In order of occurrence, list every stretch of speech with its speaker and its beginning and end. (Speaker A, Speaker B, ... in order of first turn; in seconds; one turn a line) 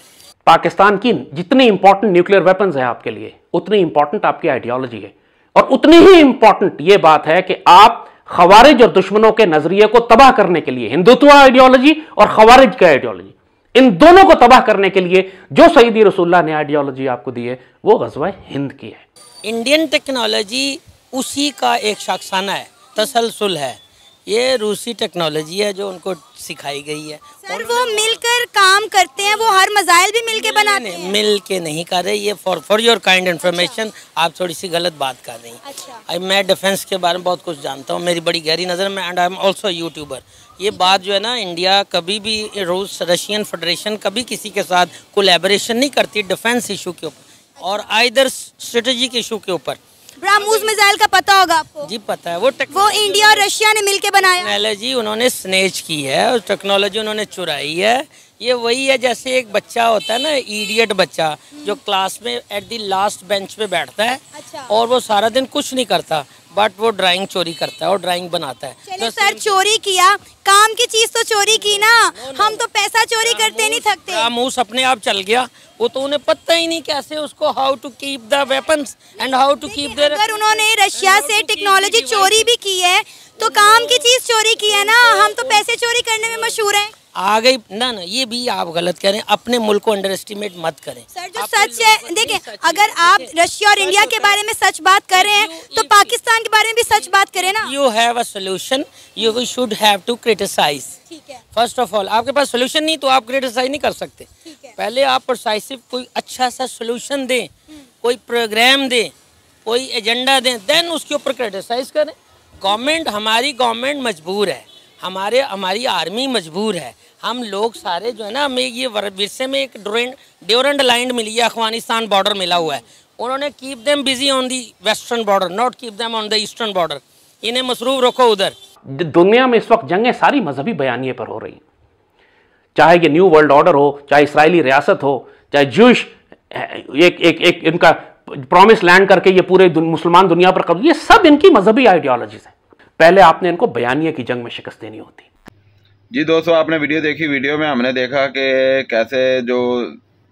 Speaker A: 0.5-19.0
Speaker B: 19.4-28.2
Speaker C: 27.4-31.2
Speaker B: 29.2-29.6
Speaker B: 30.3-49.8
Speaker C: 33.4-33.8
Speaker C: 35.6-36.0
Speaker C: 40.7-41.0
Speaker C: 47.6-47.9
Speaker C: 50.2-51.9
Speaker B: 51.8-53.5
Speaker C: 52.7-54.6
Speaker B: 54.3-69.6
Speaker C: 61.5-61.8
Speaker C: 64.3-64.8
Speaker C: 68.8-74.3
Speaker B: 71.5-72.6
Speaker B: 73.2-82.5
Speaker C: 79.2-86.9
Speaker B: 83.5-84.0
Speaker B: 84.7-85.6
Speaker B: 87.2-94.4
Speaker C: 91.1-97.7
Speaker B: 95.1-96.1
Speaker B: 96.9-101.0
Speaker C: 101.1-101.4
Speaker B: 101.5-107.5
Speaker C: 104.4-104.8
Speaker B: 108.0-109.1
Speaker B: 109.6-128.5
Speaker A: 128.9-131.6
Speaker A: 132.7-145.2
Speaker D: 146.1-150.0